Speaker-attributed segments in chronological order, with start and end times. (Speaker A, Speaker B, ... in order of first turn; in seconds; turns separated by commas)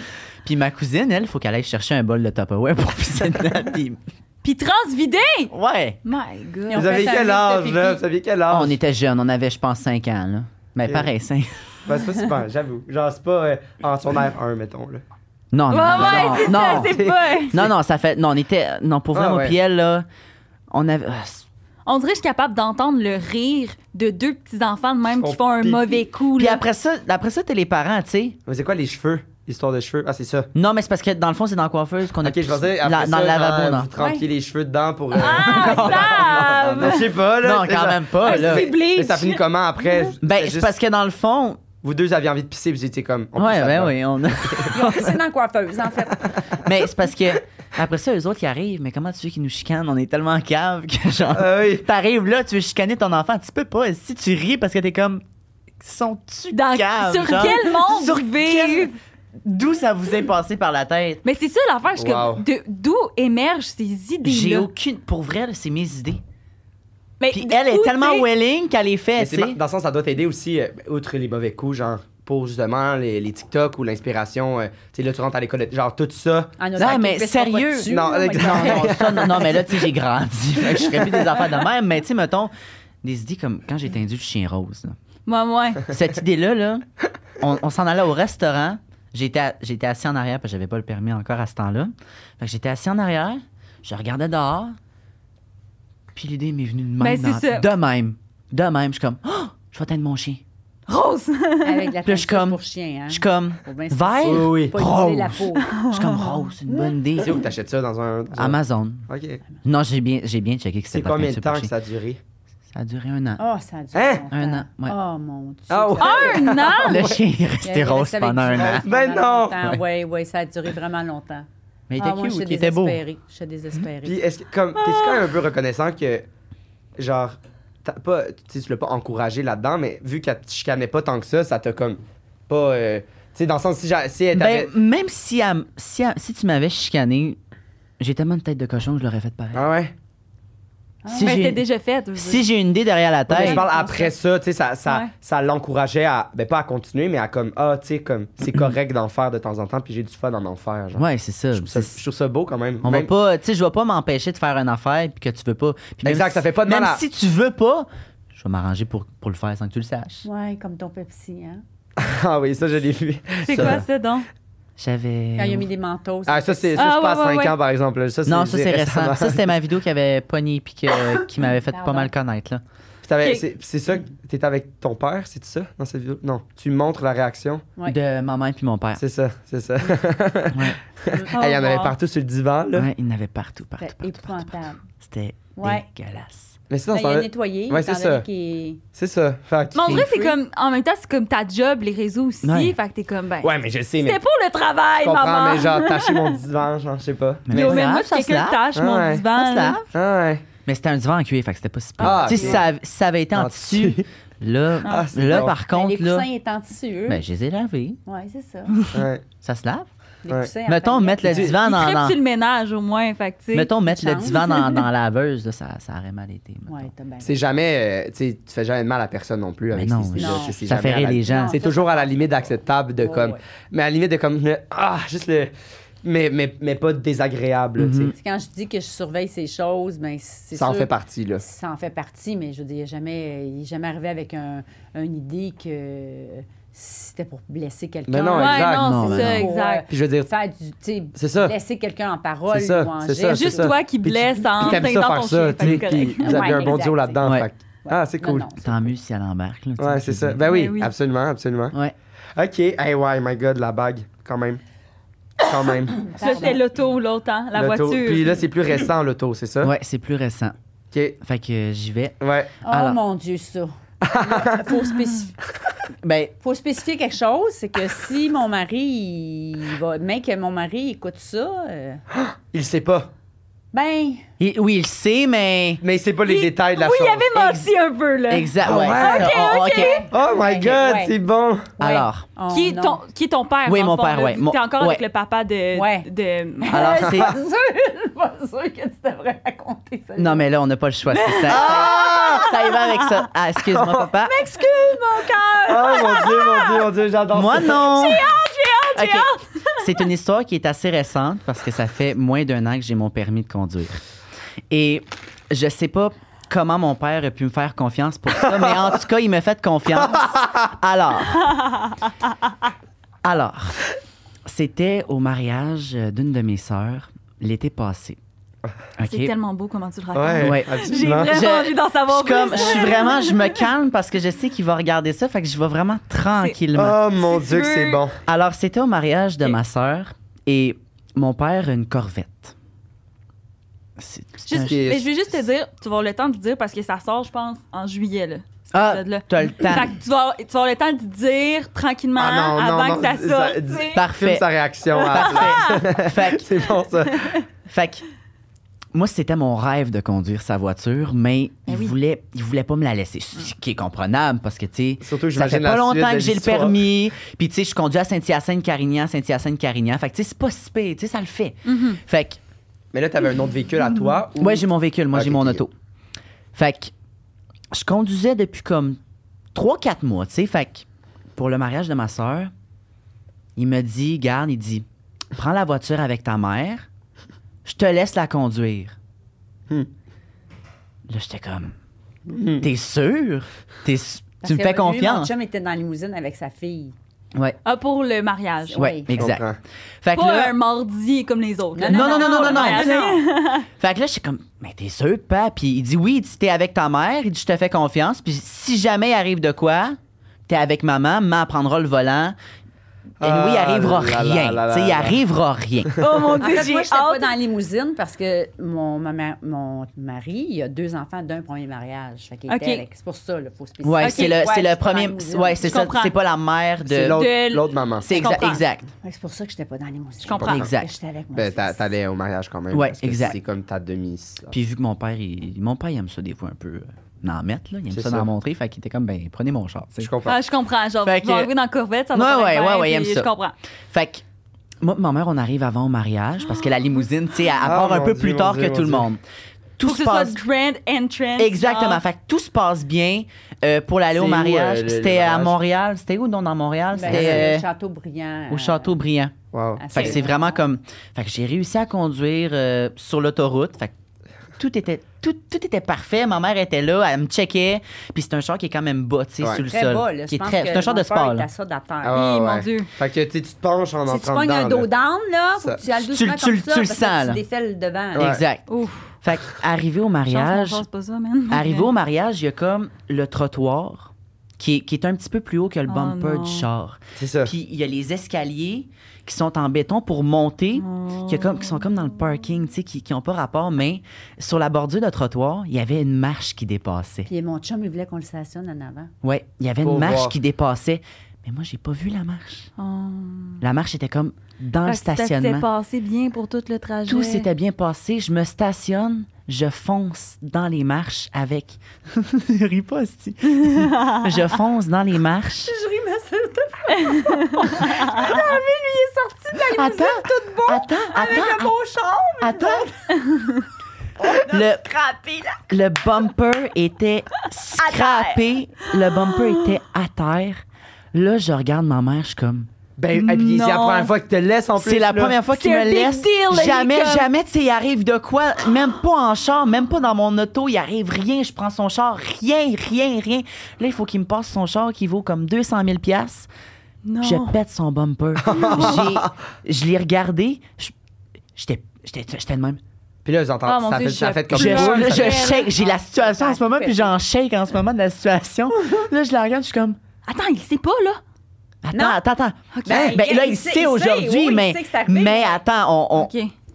Speaker A: 0.4-4.0, Speaker B: 4.4-5.5, Speaker A: 5.5-6.0, Speaker B: 6.0-7.3, Speaker C: 6.7-8.0, Speaker D: 6.7-8.7, Speaker A: 8.5-11.6, Speaker D: 11.9-15.0, Speaker A: 15.5-20.1, Speaker B: 15.7-17.6, Speaker D: 15.9-17.7, Speaker D: 19.1-19.6, Speaker A: 20.7-21.4, Speaker B: 21.9-26.6, Speaker D: 25.1-26.0, Speaker A: 26.4-28.4, Speaker D: 28.4-30.5, Speaker A: 30.6-33.9, Speaker D: 32.2-40.7, Speaker C: 34.0-34.3, Speaker B: 35.1-37.2, Speaker A: 35.6-36.0, Speaker A: 37.4-38.7, Speaker B: 38.2-40.0, Speaker A: 40.2-41.6, Speaker D: 41.8-45.1, Speaker A: 43.4-45.1, Speaker C: 44.7-46.4, Speaker A: 46.6-55.2, Speaker D: 51.3-51.9, Speaker A: 55.8-61.2, Speaker B: 56.5-58.9, Speaker B: 61.2-64.7, Speaker D: 62.0-62.4, Speaker A: 64.2-66.2, Speaker B: 67.2-68.3, Speaker A: 67.3-69.6, Speaker D: 69.2-76.5, Speaker C: 76.6-79.4, Speaker A: 76.8-82.5, Speaker D: 77.9-79.6, Speaker A: 83.0-85.0, Speaker B: 85.3-85.9, Speaker A: 85.9-86.8, Speaker A: 87.4-94.8, Speaker A: 96.1-100.4, Speaker B: 97.0-97.7, Speaker B: 100.9-101.9, Speaker C: 101.6-105.8, Speaker A: 102.0-107.4, Speaker D: 104.2-104.8, Speaker B: 105.6-106.5, Speaker C: 106.7-106.9, Speaker D: 107.2-109.4, Speaker A: 108.3-109.1, Speaker A: 109.6-111.7, Speaker D: 110.9-112.2, Speaker A: 112.7-113.4, Speaker C: 113.4-116.6, Speaker D: 113.9-114.2, Speaker A: 114.3-115.0, Speaker D: 115.7-117.2, Speaker B: 116.0-117.1, Speaker A: 116.8-118.8, Speaker C: 117.6-121.5, Speaker D: 118.6-119.8, Speaker A: 121.9-123.0, Speaker C: 122.0-124.2, Speaker D: 124.0-126.3, Speaker B: 124.8-125.3, Speaker D: 127.0-134.7, Speaker A: 134.3-137.4, Speaker A: 138.0-139.6, Speaker D: 139.5-139.9, Speaker C: 141.0-141.6, Speaker A: 141.1-141.6, Speaker B: 141.2-142.4, Speaker A: 142.2-143.6, Speaker D: 143.3-153.1, Speaker C: 143.3-144.1, Speaker B: 144.9-145.1, Speaker A: 150.9-152.0, Speaker A: 152.8-160.2, Speaker D: 156.0-157.0, Speaker C: 160.2-161.6, Speaker D: 162.0-163.8, Speaker B: 163.4-164.3, Speaker A: 163.5-163.8, Speaker A: 164.8-165.7, Speaker C: 165.4-166.8, Speaker D: 166.3-169.5, Speaker B: 166.8-167.6, Speaker A: 168.3-172.6, Speaker C: 171.7-172.1, Speaker D: 173.0-177.7, Speaker A: 177.9-179.0, Speaker D: 178.9-182.9, Speaker A: 180.5-180.8, Speaker B: 181.3-181.9, Speaker A: 182.7-186.6, Speaker C: 183.8-184.8, Speaker C: 185.6-185.9, Speaker D: 186.7-188.2, Speaker C: 186.9-188.8, Speaker D: 188.9-190.1, Speaker B: 189.7-196.4, Speaker C: 189.9-190.4, Speaker A: 192.4-192.8, Speaker D: 193.4-194.2, Speaker D: 195.0-197.8, Speaker A: 197.5-198.6, Speaker B: 197.5-199.9, Speaker D: 198.7-199.2, Speaker A: 199.3-199.8, Speaker D: 199.9-200.4, Speaker A: 200.7-206.3, Speaker C: 202.0-202.6, Speaker D: 202.0-202.7, Speaker D: 203.3-204.1, Speaker B: 204.8-205.1, Speaker D: 204.8-205.6, Speaker C: 205.4-207.2, Speaker A: 207.1-208.0, Speaker C: 208.1-208.7, Speaker A: 208.7-209.9, Speaker D: 208.9-209.2, Speaker C: 210.2-211.6, Speaker A: 210.7-212.2, Speaker D: 211.3-211.5, Speaker B: 211.6-213.7, Speaker A: 213.5-216.9, Speaker C: 213.9-214.5, Speaker C: 216.7-217.4, Speaker D: 217.2-225.5, Speaker A: 219.7-221.6, Speaker C: 220.2-220.6, Speaker C: 221.2-222.2, Speaker C: 223.0-223.4, Speaker D: 226.0-228.1, Speaker A: 227.8-228.1, Speaker C: 228.1-243.8, Speaker D: 230.6-231.4, Speaker D: 238.1-240.3, Speaker B: 238.3-239.8, Speaker A: 238.8-239.4, Speaker D: 241.2-241.6, Speaker D: 242.5-248.5, Speaker B: 243.3-246.8, Speaker C: 246.2-247.2, Speaker C: 247.8-248.9, Speaker A: 248.6-250.4, Speaker D: 249.8-251.8, Speaker B: 250.4-250.9, Speaker D: 252.4-254.6, Speaker D: 255.4-256.1, Speaker C: 255.9-256.6, Speaker B: 256.2-258.4, Speaker D: 257.6-259.7, Speaker A: 259.6-260.5, Speaker D: 260.9-261.2, Speaker A: 261.2-263.0, Speaker D: 262.2-262.5, Speaker C: 262.6-265.3, Speaker D: 264.0-264.7, Speaker A: 266.0-266.3, Speaker C: 266.4-272.0, Speaker D: 272.1-273.1, Speaker C: 273.7-274.3, Speaker A: 274.4-275.8, Speaker D: 275.8-277.3, Speaker B: 276.2-280.1, Speaker A: 277.3-277.7, Speaker A: 278.3-280.0, Speaker D: 278.6-279.3, Speaker C: 279.1-281.1, Speaker D: 280.1-281.7, Speaker C: 281.8-283.0, Speaker A: 281.8-282.2, Speaker B: 282.5-286.9, Speaker A: 283.6-285.0, Speaker C: 285.7-286.1, Speaker C: 286.6-290.4, Speaker A: 286.7-287.3, Speaker A: 290.2-294.4, Speaker B: 291.1-293.2, Speaker D: 291.5-292.5, Speaker D: 293.7-294.1, Speaker C: 294.2-296.8, Speaker B: 295.7-296.8, Speaker D: 295.7-297.9, Speaker A: 297.3-298.3, Speaker B: 297.7-300.0, Speaker C: 297.9-299.0, Speaker A: 298.9-304.0, Speaker A: 304.7-311.5, Speaker D: 310.0-310.6, Speaker B: 311.5-311.9, Speaker A: 313.2-313.8, Speaker A: 314.4-318.2, Speaker A: 319.0-319.3, Speaker B: 319.0-323.6, Speaker D: 320.1-321.3, Speaker A: 320.4-327.0, Speaker C: 322.6-323.1, Speaker D: 326.7-328.2, Speaker B: 327.2-328.0, Speaker A: 328.3-332.6, Speaker A: 334.0-334.8, Speaker B: 334.4-344.1, Speaker D: 334.5-335.1, Speaker A: 338.7-339.9, Speaker D: 342.2-347.3, Speaker A: 343.9-346.5, Speaker B: 344.9-345.9, Speaker A: 347.7-348.0, Speaker A: 348.9-362.4, Speaker B: 351.7-351.9, Speaker D: 355.0-356.8, Speaker B: 361.6-362.0, Speaker D: 362.9-365.6, Speaker A: 364.4-365.7, Speaker A: 366.6-366.9, Speaker A: 367.7-369.0, Speaker A: 369.5-372.5, Speaker A: 373.6-376.9, Speaker A: 377.6-378.9, Speaker A: 381.1-381.7, Speaker D: 382.3-382.7, Speaker A: 382.6-385.3, Speaker C: 384.4-386.9, Speaker B: 387.6-388.8, Speaker C: 388.7-389.1, Speaker A: 388.8-389.5, Speaker D: 389.1-389.6, Speaker A: 390.0-390.6, Speaker B: 390.1-393.7, Speaker C: 391.7-393.2, Speaker A: 391.9-393.2, Speaker A: 393.8-402.4, Speaker D: 403.2-405.2, Speaker A: 403.2-406.0, Speaker B: 406.0-407.3, Speaker C: 406.4-415.7, Speaker B: 412.5-412.8, Speaker A: 413.8-417.2, Speaker B: 414.0-414.4, Speaker B: 415.6-416.1, Speaker D: 416.8-418.1, Speaker B: 417.1-418.6, Speaker A: 418.0-418.9, Speaker C: 418.2-421.9, Speaker B: 420.2-420.6, Speaker A: 420.4-420.9, Speaker D: 421.3-424.6, Speaker A: 422.7-423.4, Speaker A: 424.5-430.1, Speaker D: 427.9-428.3, Speaker D: 430.0-430.4, Speaker B: 430.2-433.6, Speaker A: 431.0-431.5, Speaker A: 432.1-433.3, Speaker A: 433.9-434.2, Speaker A: 434.8-439.2, Speaker B: 436.5-436.7, Speaker D: 437.6-439.1, Speaker A: 439.8-440.4, Speaker B: 439.8-442.0, Speaker A: 441.4-447.6, Speaker D: 444.1-445.6, Speaker C: 446.9-449.0, Speaker D: 447.1-447.5, Speaker A: 448.5-449.3, Speaker D: 449.5-450.2, Speaker C: 449.8-450.6, Speaker A: 449.9-453.9, Speaker A: 454.6-461.5, Speaker C: 459.6-462.2, Speaker D: 462.0-464.9, Speaker B: 462.1-462.9, Speaker C: 464.1-468.4, Speaker A: 465.9-467.4, Speaker D: 468.1-468.4, Speaker A: 468.1-468.7, Speaker B: 468.7-469.1, Speaker A: 469.2-470.8, Speaker B: 470.3-471.9, Speaker A: 471.5-487.3, Speaker B: 475.9-476.7, Speaker D: 477.2-477.5, Speaker B: 480.8-481.9, Speaker C: 487.3-489.1, Speaker A: 489.2-492.7, Speaker D: 489.8-490.3, Speaker B: 492.8-493.6, Speaker A: 493.6-495.6, Speaker B: 494.8-497.5, Speaker A: 497.1-505.7, Speaker B: 503.6-504.3, Speaker C: 505.6-513.3, Speaker B: 507.0-508.4, Speaker A: 509.7-511.7, Speaker A: 512.4-512.9, Speaker C: 514.2-515.7, Speaker A: 514.5-514.8, Speaker A: 515.7-522.7, Speaker C: 517.8-518.4, Speaker D: 523.0-525.4, Speaker B: 523.1-524.1, Speaker A: 524.8-536.5, Speaker B: 525.5-527.3, Speaker B: 537.0-537.5, Speaker A: 537.2-540.9, Speaker D: 538.4-539.3, Speaker B: 538.5-539.0, Speaker A: 541.5-542.8, Speaker D: 543.2-545.6, Speaker B: 543.6-545.7, Speaker A: 544.5-550.0, Speaker C: 545.6-547.1, Speaker B: 550.3-551.2, Speaker A: 551.8-556.3, Speaker C: 551.9-552.2, Speaker B: 552.7-553.1, Speaker C: 552.8-555.6, Speaker D: 552.9-553.1, Speaker B: 556.1-556.5